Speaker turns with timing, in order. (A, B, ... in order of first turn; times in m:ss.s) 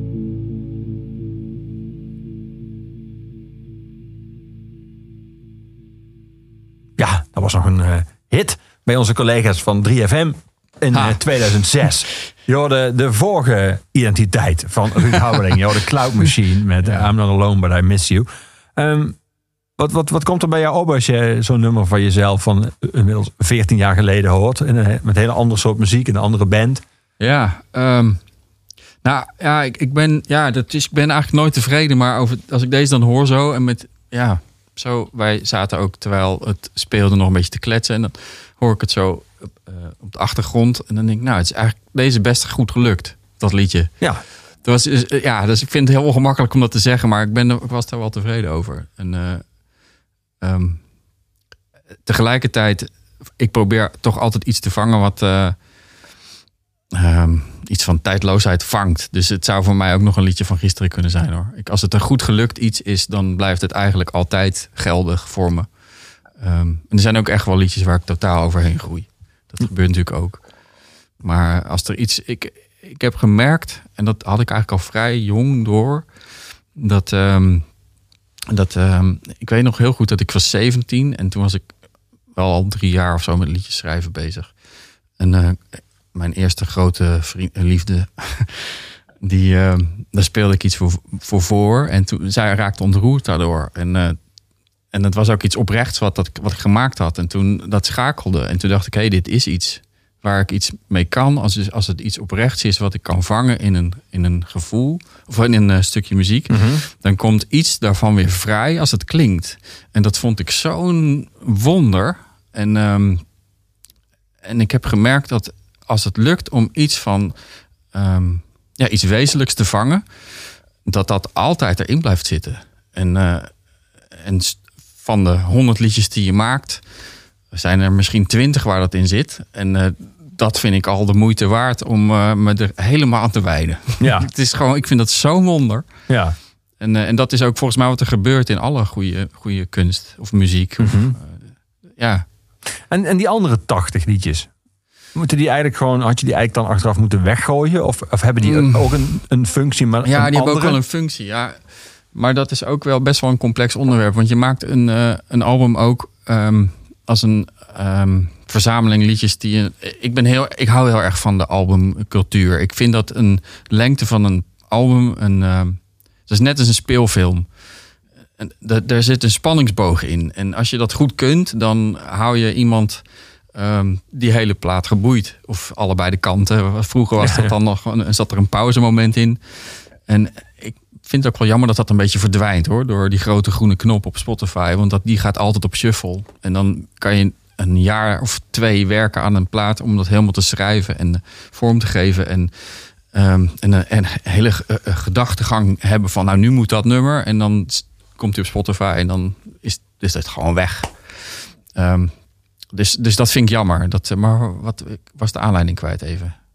0:07.0-0:19.2 A
0:10.9-0:11.2 B
0:19.8-0:26.8 A
0:27.2-0:28.2 B
0:29.0-0:43.9 B
0:44.6-0:49.4 B
0:50.4-0:50.8 B
0:52.1-0:55.6 B
0:56.9-1:05.7 B
1:06.4-1:10.4 B
1:11.2-1:16.1 B
1:16.8-1:17.7 B
1:18.5-1:21.7 B
1:22.4-1:24.5 B
1:25.2-1:34.2 B
1:34.9-1:53.2 B
1:46.5-1:46.8 A
1:54.4-1:57.4 B
1:57.9-2:00.0 B
2:00.9-2:03.5 B
2:04.2-2:06.8 B
2:07.5-2:15.8 B
2:14.0-2:14.3 A
2:16.1-2:16.4 A
2:16.8-2:22.2 B
2:20.8-2:21.2 A
2:22.9-2:24.5 A
2:25.1-2:30.8 A
2:28.4-2:29.1 B
2:30.0-2:31.6 B
2:32.1-2:47.5 B
2:48.4-2:53.0 B
2:53.5-2:59.4 B
2:57.2-2:57.5 A
3:00.1-3:12.5 B
3:13.1-3:22.1 B
3:22.7-3:26.4 B